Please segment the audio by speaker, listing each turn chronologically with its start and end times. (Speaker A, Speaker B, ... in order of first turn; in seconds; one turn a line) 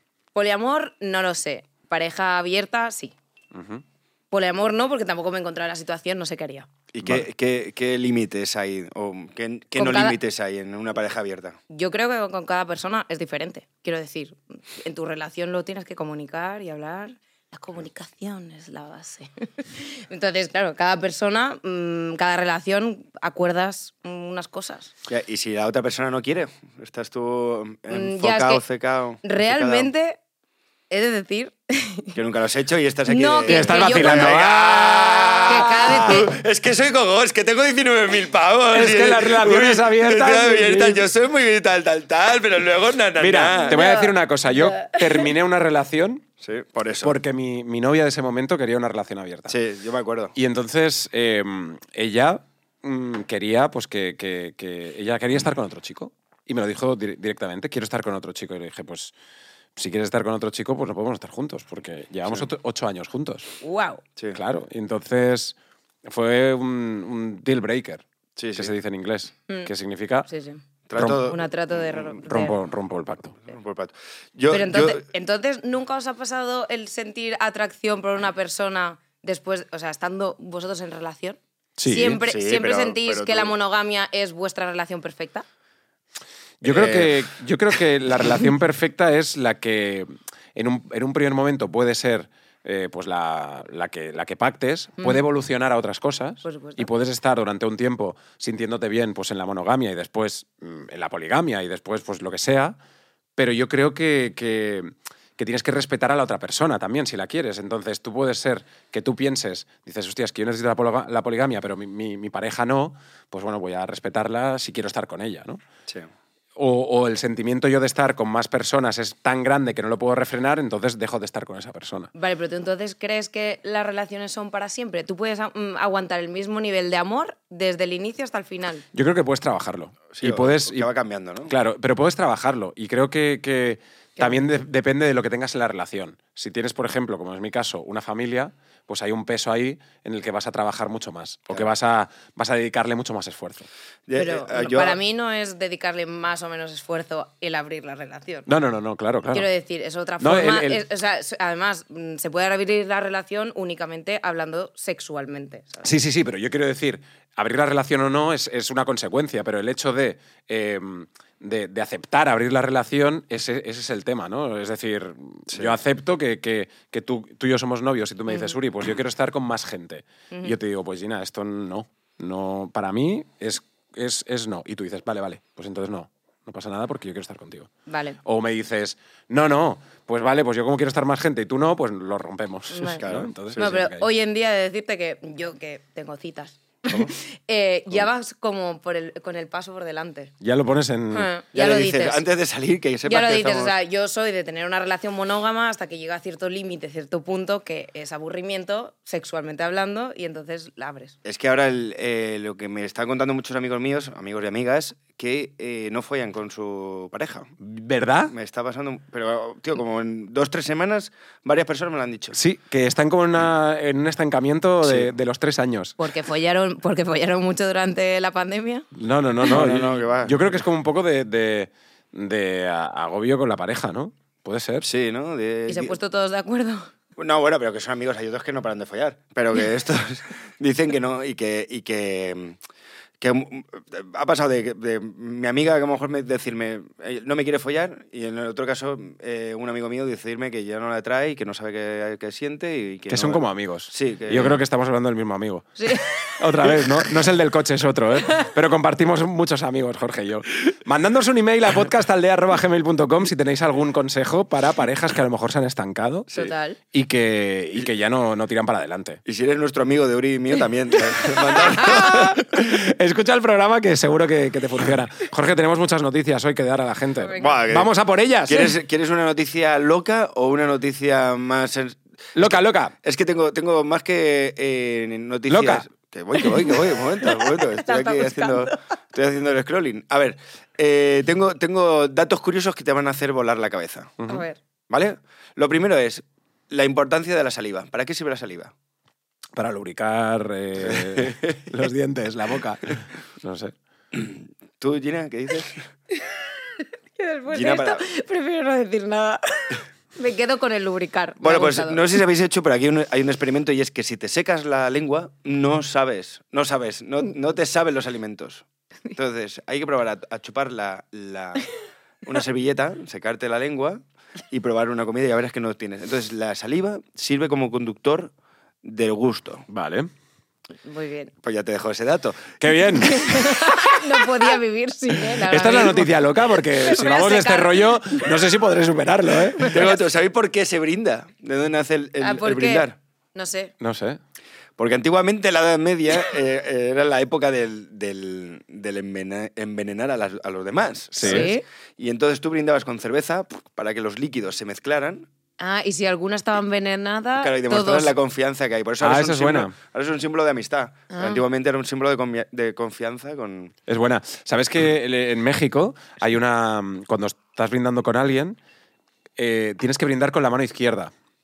Speaker A: 0.3-3.1
Speaker B: 3.5-3.8
Speaker A: 4.3-6.7
Speaker C: 6.9-11.6
Speaker A: 9.7-10.2
Speaker A: 11.7-24.9
Speaker C: 25.1-29.9
Speaker A: 27.9-28.6
Speaker A: 29.2-30.2
Speaker A: 30.9-32.1
Speaker C: 32.1-43.8
Speaker A: 33.1-34.4
Speaker B: 33.5-36.2
Speaker A: 35.4-36.3
Speaker B: 38.7-41.1
Speaker B: 43.2-46.2
Speaker A: 43.6-45.3
Speaker C: 46.4-47.2
Speaker B: 47.0-49.6
Speaker C: 49.5-50.3
Speaker B: 50.3-59.1
Speaker B: 59.7-63.5
Speaker A: 63.6-64.0
Speaker B: 64.3-68.0
Speaker C: 68.4-68.7
Speaker B: 68.5-70.3
Speaker A: 70.3-70.6
Speaker C: 70.9-71.4
Speaker B: 71.0-71.3
Speaker A: 71.2-72.5
Speaker B: 72.2-73.3
Speaker C: 73.4-75.0
Speaker A: 74.5-85.4
Speaker B: 81.8-82.2
Speaker C: 82.2-83.5
Speaker B: 86.6-102.8
Speaker C: 86.6-87.2
Speaker A: 96.4-96.9
Speaker B: 103.3-115.6
Speaker B: 116.5-122.1
Speaker A: 122.1-128.8
Speaker B: 128.9-130.9
Speaker C: 130.1-131.5
Speaker B: 131.5-143.7
Speaker A: 134.2-134.4
Speaker C: 144.1-145.0
Speaker A: 144.1-148.5
Speaker B: 148.5-149.5
Speaker A: 149.3-155.9
Speaker B: 150.2-150.8
Speaker B: 155.8-177.7
Speaker C: 165.5-165.7
Speaker A: 168.3-168.5
Speaker A: 170.3-170.6
Speaker A: 177.9-178.2
Speaker B: 178.2-184.1
Speaker A: 182.7-183.0
Speaker C: 183.0-183.6
Speaker A: 183.6-190.3
Speaker B: 190.4-191.3
Speaker A: 191.1-192.2
Speaker C: 191.5-193.7
Speaker A: 193.0-201.1
Speaker C: 201.2-207.5
Speaker B: 207.6-208.3
Speaker C: 208.3-212.4
Speaker B: 212.3-216.0
Speaker C: 214.8-215.1
Speaker A: 216.0-218.8
Speaker B: 218.9-224.9
Speaker C: 219.4-220.4
Speaker C: 224.8-226.0
Speaker A: 225.7-226.9
Speaker C: 227.2-232.6
Speaker C: 233.2-244.6
Speaker B: 243.1-256.3
Speaker A: 245.8-246.7
Speaker A: 256.3-256.8
Speaker B: 256.9-259.2
Speaker C: 259.2-262.4
Speaker A: 261.5-262.2
Speaker B: 261.6-268.7
Speaker A: 267.2-267.6
Speaker C: 267.4-267.9
Speaker C: 268.5-272.4
Speaker B: 272.4-272.9
Speaker C: 273.0-284.2
Speaker B: 275.5-275.8
Speaker A: 276.4-278.8
Speaker B: 284.2-284.4
Speaker A: 284.3-284.6
Speaker C: 284.9-288.7
Speaker B: 289.5-293.7
Speaker C: 290.9-291.6
Speaker C: 294.1-295.9
Speaker A: 296.2-302.1
Speaker C: 297.5-298.0
Speaker C: 301.4-311.7
Speaker C: 312.2-318.3
Speaker C: 318.8-319.6
Speaker B: 319.7-320.1
Speaker A: 320.8-321.3
Speaker C: 321.4-322.6
Speaker B: 322.6-324.0
Speaker A: 323.0-328.3
Speaker B: 325.3-330.0
Speaker A: 329.5-329.9
Speaker C: 329.7-332.9
Speaker A: 332.2-333.7
Speaker B: 333.8-334.2
Speaker C: 334.8-345.2
Speaker B: 341.1-341.5
Speaker A: 341.2-341.6
Speaker A: 345.6-348.1
Speaker C: 347.4-353.7
Speaker B: 349.0-349.7
Speaker A: 351.1-351.4
Speaker B: 353.9-358.6
Speaker B: 359.4-361.1